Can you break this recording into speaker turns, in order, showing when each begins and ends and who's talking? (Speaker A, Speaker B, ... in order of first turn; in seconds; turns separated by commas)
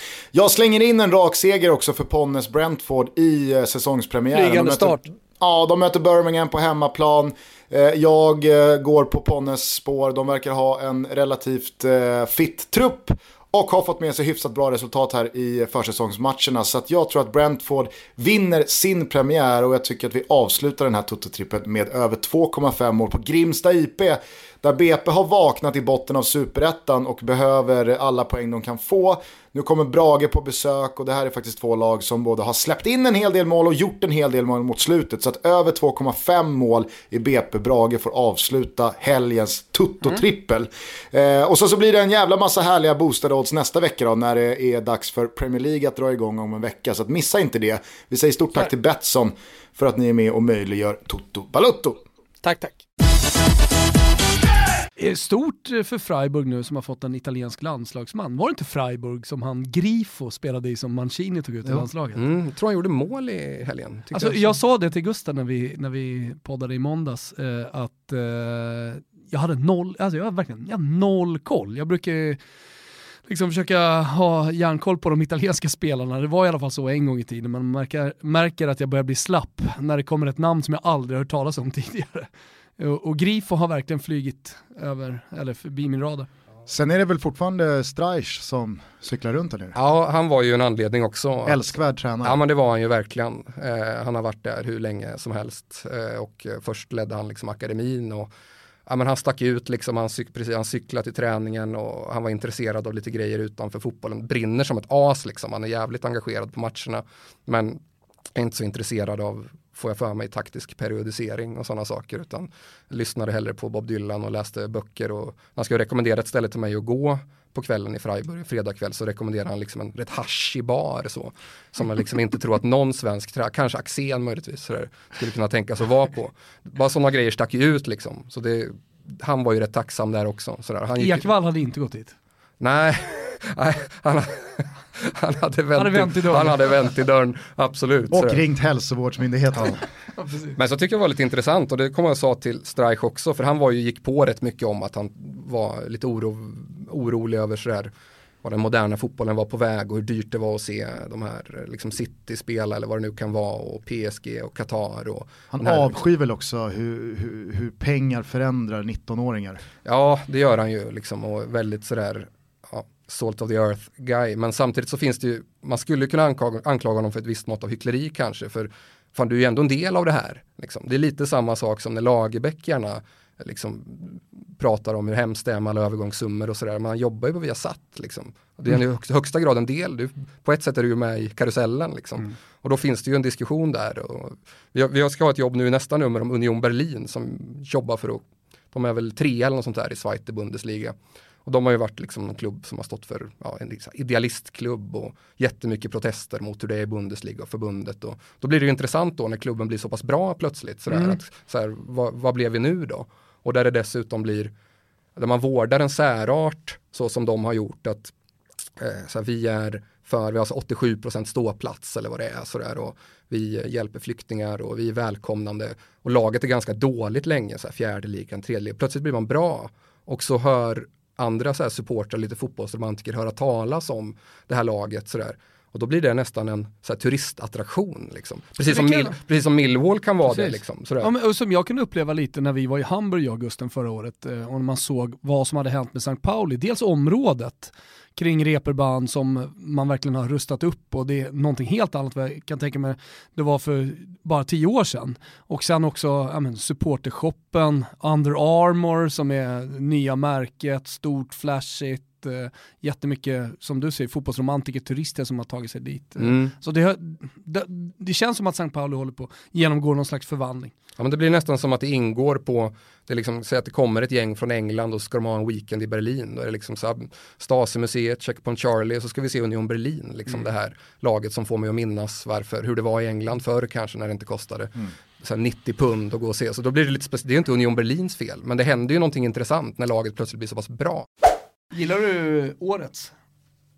Speaker A: 0.3-52.0, Speaker B: 4.3-5.1, Speaker B: 52.4-52.8, Speaker B: 55.0-62.2, Speaker C: 62.1-64.5, Speaker B: 64.1-72.4, Speaker B: 73.3-86.3, Speaker A: 86.7-89.8, Speaker C: 89.7-91.7, Speaker A: 91.5-92.4, Speaker C: 92.2-98.3, Speaker C: 98.9-107.8, Speaker C: 108.3-131.3, Speaker B: 131.0-132.1, Speaker C: 132.6-138.4, Speaker B: 135.7-136.7, Speaker A: 138.1-139.8, Speaker B: 140.2-140.5, Speaker C: 140.6-147.9, Speaker C: 148.4-156.0, Speaker A: 155.5-159.6, Speaker C: 159.8-204.5, Speaker B: 200.9-201.2, Speaker C: 205.2-208.1, Speaker C: 208.8-231.1, Speaker B: 228.6-229.2, Speaker B: 230.2-260.8, Speaker C: 256.2-256.5, Speaker C: 261.0-281.1, Speaker B: 281.7-283.1